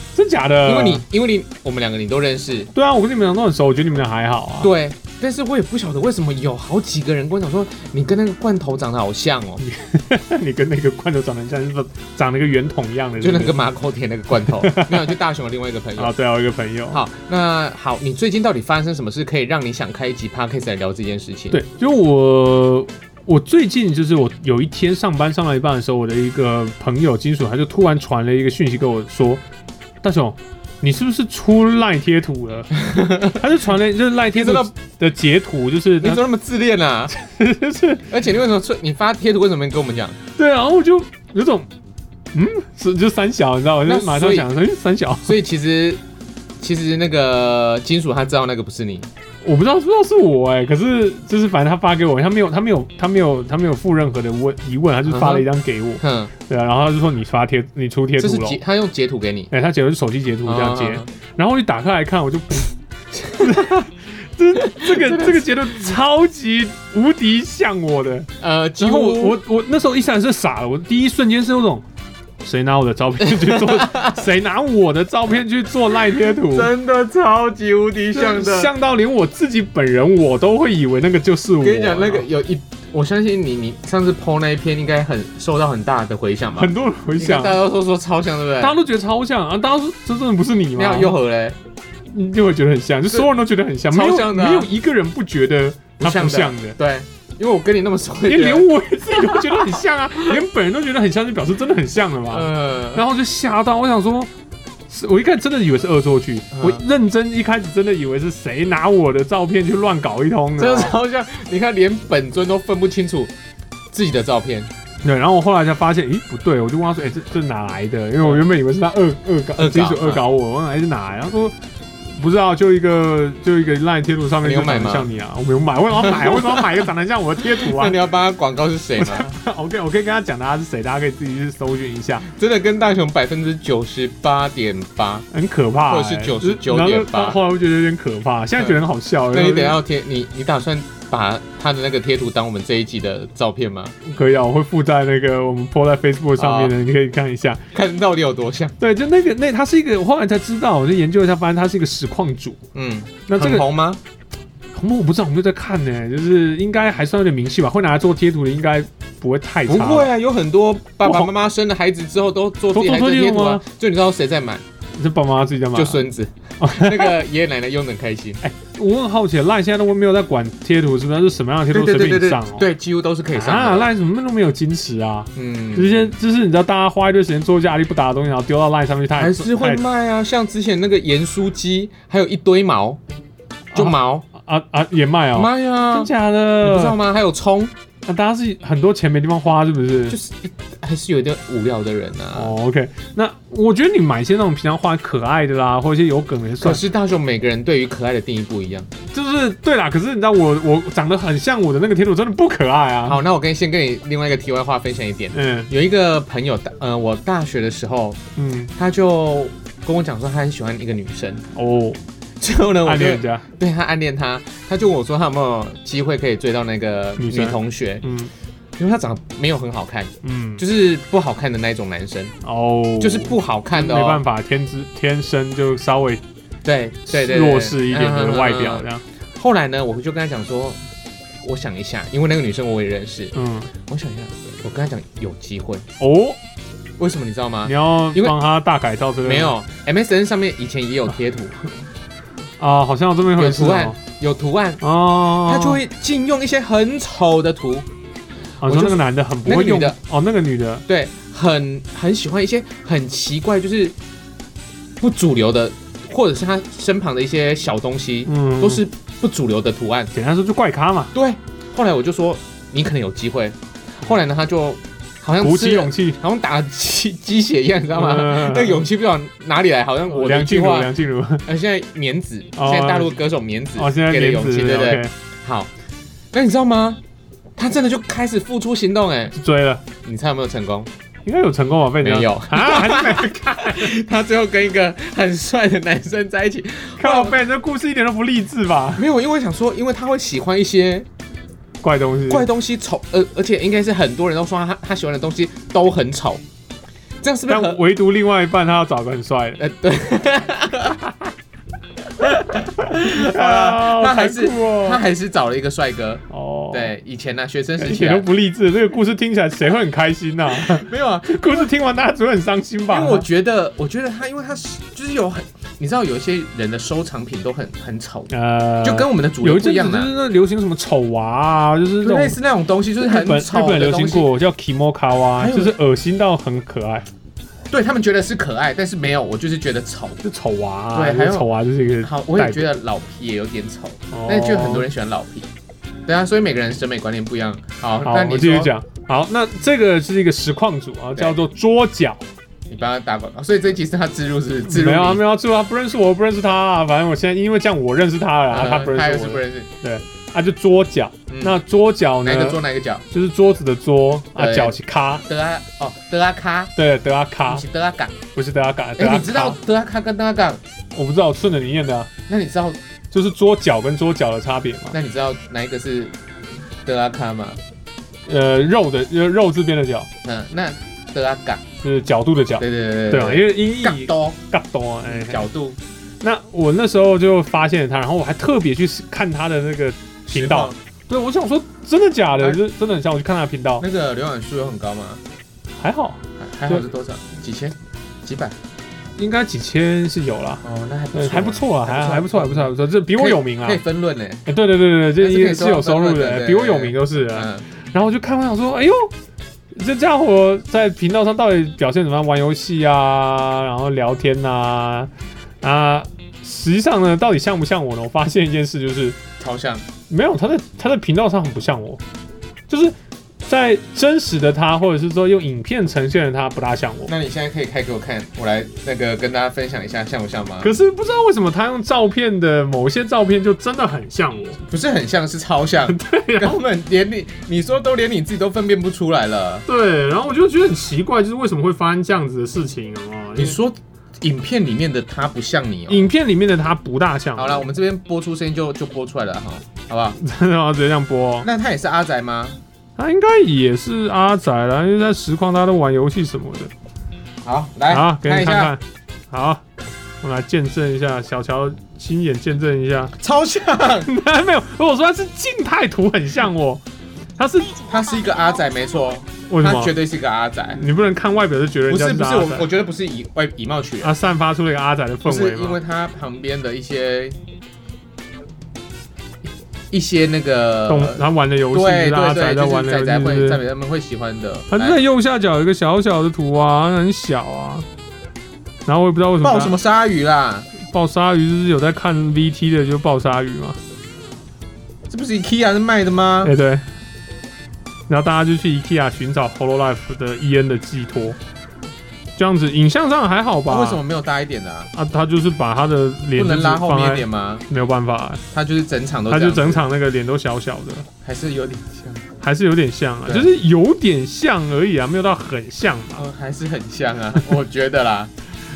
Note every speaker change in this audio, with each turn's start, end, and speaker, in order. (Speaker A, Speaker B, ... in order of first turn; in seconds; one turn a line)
Speaker A: 0.1-1.0
Speaker B: 0.6-2.7
Speaker A: 2.7-4.7
Speaker B: 4.6-9.6
Speaker A: 9.6-13.6
Speaker B: 13.2-16.1
Speaker A: 14.4-15.1
Speaker A: 16.0-17.0
Speaker B: 16.9-21.6
Speaker A: 21.5-29.4
Speaker A: 30.0-32.7
Speaker B: 32.7-33.4
Speaker A: 33.3-36.2
Speaker B: 34.3-34.7
Speaker B: 36.0-37.1
Speaker A: 37.1-38.0
Speaker B: 38.1-40.2
Speaker A: 40.4-41.7
Speaker A: 42.3-45.4
Speaker B: 43.8-44.5
Speaker B: 45.2-46.0
Speaker B: 46.6-49.1
Speaker A: 49.4-58.6
Speaker B: 55.0-55.5
Speaker B: 56.0-56.3
Speaker B: 58.2-59.5
Speaker A: 59.5-71.8
Speaker B: 60.5-61.1
Speaker B: 63.2-63.9
Speaker B: 64.6-65.9
Speaker B: 68.4-69.4
Speaker A: 72.4-76.7
Speaker B: 73.3-74.1
Speaker B: 76.4-78.7
Speaker A: 78.1-82.2
Speaker B: 81.6-88.8
Speaker A: 86.5-87.6
Speaker A: 88.6-91.2
Speaker B: 90.7-91.6
Speaker A: 92.1-96.8
Speaker B: 93.9-94.7
Speaker B: 96.0-100.4
Speaker A: 98.2-104.3
Speaker B: 102.3-103.0
Speaker A: 104.9-110.9
Speaker B: 106.5-106.8
Speaker B: 110.6-113.3
Speaker B: 113.9-114.7
Speaker A: 115.0-121.5
Speaker B: 119.5-120.2
Speaker A: 122.2-128.0
Speaker B: 124.4-125.1
Speaker B: 125.9-126.8
Speaker B: 127.4-129.3
Speaker A: 129.0-132.2
Speaker B: 132.2-135.2
Speaker A: 135.3-139.8
Speaker B: 135.9-137.4
Speaker B: 138.6-143.9
Speaker A: 144.0-147.6
Speaker B: 146.4-146.7
Speaker B: 147.7-148.7
Speaker A: 148.8-152.6
Speaker B: 152.7-154.0
Speaker A: 153.3-153.7
Speaker A: 154.7-160.1
Speaker B: 159.7-164.6
Speaker A: 161.0-161.3
Speaker A: 162.7-163.6
Speaker A: 164.9-166.0
Speaker B: 165.7-168.4
Speaker A: 166.6-167.2
Speaker A: 168.4-172.7
Speaker B: 171.7-173.9
Speaker A: 173.3-179.8
Speaker B: 175.3-176.1
Speaker B: 179.2-183.0
Speaker B: 183.7-184.3
Speaker A: 183.7-187.0
Speaker B: 185.3-186.1
Speaker B: 186.6-187.7
Speaker A: 188.1-190.2
Speaker B: 190.1-192.5
Speaker A: 192.3-196.8
Speaker B: 196.6-198.9
Speaker A: 199.1-203.2
Speaker B: 203.1-208.2
Speaker A: 205.3-205.7
Speaker A: 208.3-208.7
Speaker B: 208.8-211.4
Speaker A: 211.5-212.0
Speaker B: 212.4-218.1
Speaker A: 212.8-213.4
Speaker A: 217.2-218.3
Speaker B: 218.8-222.3
Speaker A: 220.2-220.6
Speaker A: 222.4-226.2
Speaker B: 223.0-224.2
Speaker B: 226.6-230.8
Speaker A: 227.1-229.0
Speaker B: 231.4-233.3
Speaker A: 233.3-233.7
Speaker B: 233.9-235.8
Speaker A: 236.0-236.4
Speaker B: 237.0-238.3
Speaker A: 237.6-239.5
Speaker B: 239.2-241.6
Speaker A: 242.6-244.0
Speaker B: 243.3-244.8
Speaker A: 244.8-245.8
Speaker B: 245.3-247.9
Speaker A: 248.6-250.8
Speaker B: 248.6-250.0
Speaker B: 250.9-253.9
Speaker B: 255.0-260.1
Speaker A: 258.2-258.8
Speaker A: 260.1-261.1
Speaker B: 261.1-270.9
Speaker A: 265.4-266.2
Speaker A: 267.9-268.9
Speaker A: 270.1-271.4
Speaker B: 271.4-275.7
Speaker A: 272.6-273.1
Speaker A: 273.8-275.1
Speaker B: 276.3-277.0
Speaker B: 277.6-279.3
Speaker A: 279.3-279.8
Speaker B: 280.0-280.9
Speaker A: 281.2-283.9
Speaker B: 282.0-287.4
Speaker A: 287.0-289.0
Speaker B: 288.9-291.1
Speaker A: 291.8-292.5
Speaker B: 292.3-296.4
Speaker B: 297.2-297.8
Speaker A: 297.5-299.6
Speaker B: 299.6-301.3
Speaker B: 302.2-308.3
Speaker A: 302.8-305.0
Speaker A: 306.3-306.9
Speaker A: 307.8-313.2
Speaker B: 310.5-311.7
Speaker B: 312.9-320.1
Speaker A: 318.3-322.4
Speaker B: 322.0-324.3
Speaker A: 323.0-327.1
Speaker B: 325.4-325.7
Speaker B: 327.7-330.2
Speaker A: 330.2-332.7
Speaker B: 330.9-331.5
Speaker B: 332.0-335.5
Speaker A: 334.1-334.9
Speaker B: 336.1-338.7
Speaker A: 338.0-342.2
Speaker B: 342.7-345.2
Speaker A: 344.6-352.6
Speaker B: 348.5-349.7
Speaker B: 351.3-351.6
Speaker B: 352.2-353.0
Speaker A: 353.1-355.2
Speaker B: 354.4-356.7
Speaker A: 356.8-357.6
Speaker B: 357.5-358.1
Speaker A: 358.3-359.6
Speaker B: 359.0-360.6
Speaker A: 360.9-362.1
Speaker B: 362.3-362.8
Speaker A: 363.1-364.9
Speaker B: 364.9-366.1
Speaker B: 366.8-367.6
Speaker A: 368.2-370.1
Speaker B: 370.2-371.6
Speaker A: 371.8-375.5
Speaker B: 372.6-374.4
Speaker B: 375.1-375.8
Speaker A: 376.2-383.8
Speaker B: 380.3-380.8
Speaker B: 383.8-385.2
Speaker A: 385.8-386.8
Speaker B: 386.4-388.5
Speaker A: 389.2-393.8
Speaker B: 390.6-394.5
Speaker A: 394.4-399.1
Speaker B: 395.2-397.6
Speaker A: 399.7-405.1
Speaker A: 405.6-409.2
Speaker B: 409.4-409.8
Speaker A: 410.1-412.0
Speaker A: 412.7-417.1
Speaker B: 417.1-420.7
Speaker A: 420.6-424.6
Speaker B: 424.6-429.6
Speaker A: 425.9-426.6
Speaker A: 429.7-433.6
Speaker B: 433.4-436.1
Speaker A: 435.9-437.7
Speaker B: 437.4-440.2
Speaker A: 440.2-441.5
Speaker B: 441.4-442.6
Speaker A: 443.0-446.7
Speaker B: 447.4-448.7
Speaker A: 447.9-449.6
Speaker A: 450.2-453.1
Speaker B: 453.2-454.1
Speaker A: 454.0-456.8
Speaker A: 457.4-457.8
Speaker B: 457.8-460.8
Speaker A: 459.5-460.0
Speaker A: 460.8-462.7
Speaker B: 461.9-464.2
Speaker A: 464.0-465.8
Speaker B: 465.2-467.4
Speaker B: 469.9-475.0
Speaker A: 470.9-473.6
Speaker A: 474.7-477.9
Speaker A: 478.9-479.8
Speaker B: 479.4-480.7
Speaker A: 480.8-483.8
Speaker B: 485.1-486.5
Speaker A: 486.4-486.8
Speaker A: 488.1-491.4
Speaker A: 492.4-494.0
Speaker B: 493.6-494.9
Speaker A: 494.9-498.4
Speaker B: 496.3-497.6
Speaker B: 498.5-499.8
Speaker A: 499.3-501.1
Speaker B: 501.2-502.2
Speaker A: 502.4-506.2
Speaker B: 503.2-503.5
Speaker B: 506.1-508.3